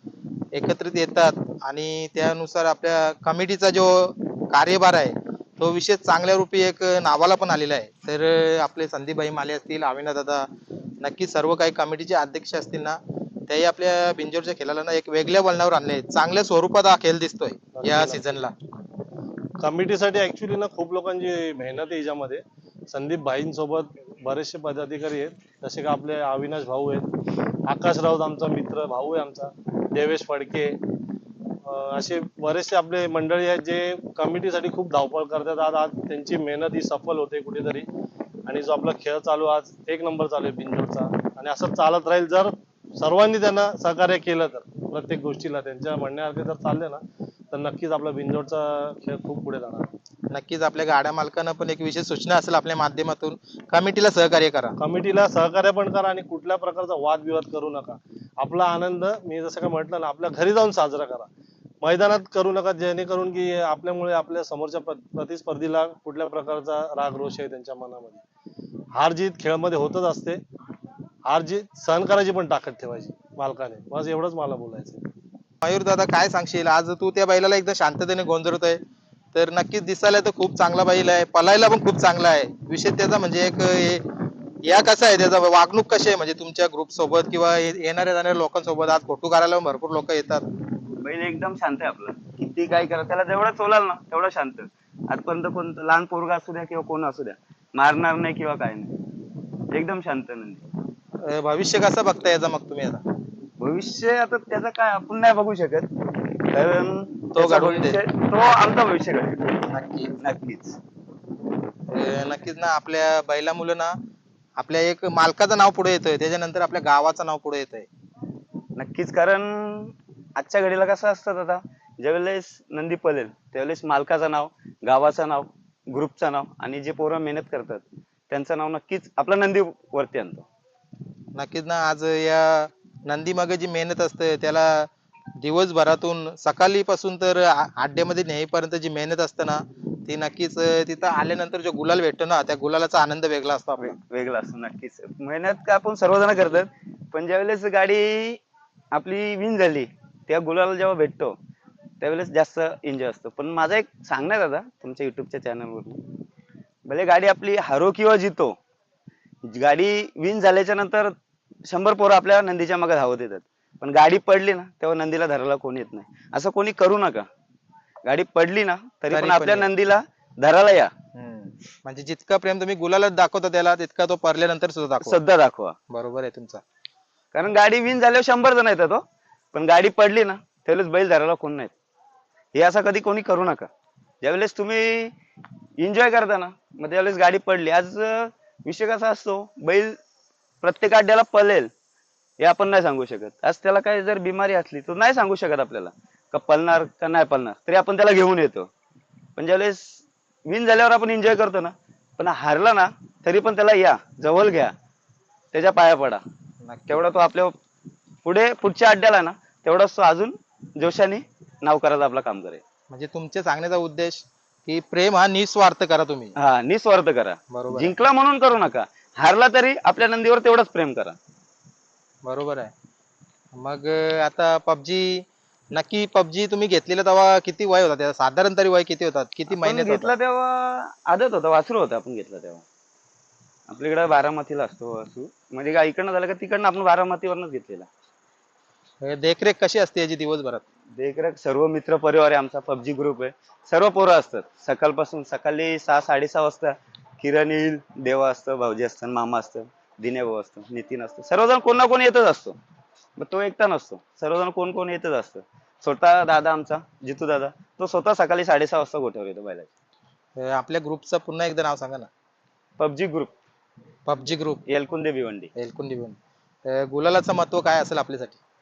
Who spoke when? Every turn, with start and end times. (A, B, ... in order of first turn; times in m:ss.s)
0:00.5-0:10.5 A
0:11.0-0:18.5 A
0:17.7-0:18.3 B
0:19.6-0:27.1 B
0:27.6-0:30.8 B
0:31.6-0:37.9 B
0:38.4-0:49.9 B
0:50.3-0:54.8 A
0:54.8-1:01.3 B
1:01.8-1:08.2 B
1:08.9-1:10.4 B
1:11.2-1:15.0 B
1:15.6-1:18.8 A
1:19.3-1:24.0 A
1:24.6-1:30.4 A
1:31.0-1:38.9 C
1:39.7-1:40.6 C
1:41.2-1:43.0 A
1:43.6-1:45.9 C
1:46.5-1:49.6 C
1:47.3-1:48.0 A
1:49.7-1:50.1 A
1:50.2-1:50.8 C
1:51.9-1:53.9 A
1:54.6-1:57.9 A
1:58.8-2:10.4 C
2:11.3-2:14.9 A
2:15.4-2:23.9 A
2:23.8-2:28.4 C
2:28.9-2:31.4 C
2:32.0-2:36.0 C
2:36.9-2:38.6 C
2:39.4-2:41.1 C
2:41.6-2:47.2 C
2:48.0-2:50.9 C
2:49.1-2:49.7 A
2:51.2-2:55.2 A
2:55.0-2:55.7 C
2:55.9-2:56.6 A
2:57.3-2:59.0 C
2:59.5-3:01.7 C
3:02.5-3:03.7 C
3:04.2-3:05.1 C
3:05.8-3:10.0 C
3:10.6-3:11.7 C
3:12.4-3:18.7 C
3:19.4-3:24.7 C
3:25.5-3:26.2 C
3:26.6-3:26.9 A
3:26.9-3:27.5 C
3:28.2-3:32.6 C
3:32.9-3:36.3 A
3:36.4-3:41.2 C
3:37.5-3:38.0 A
3:42.2-3:42.7 A
3:43.6-3:50.1 A
3:49.5-3:52.6 C
3:53.7-3:57.9 C
3:59.0-4:00.6 A
4:00.9-4:12.6 C
4:13.2-4:19.7 C
4:20.4-4:22.1 A
4:22.8-4:23.3 C
4:24.1-4:24.6 A
4:24.7-4:25.5 C
4:25.6-4:28.4 A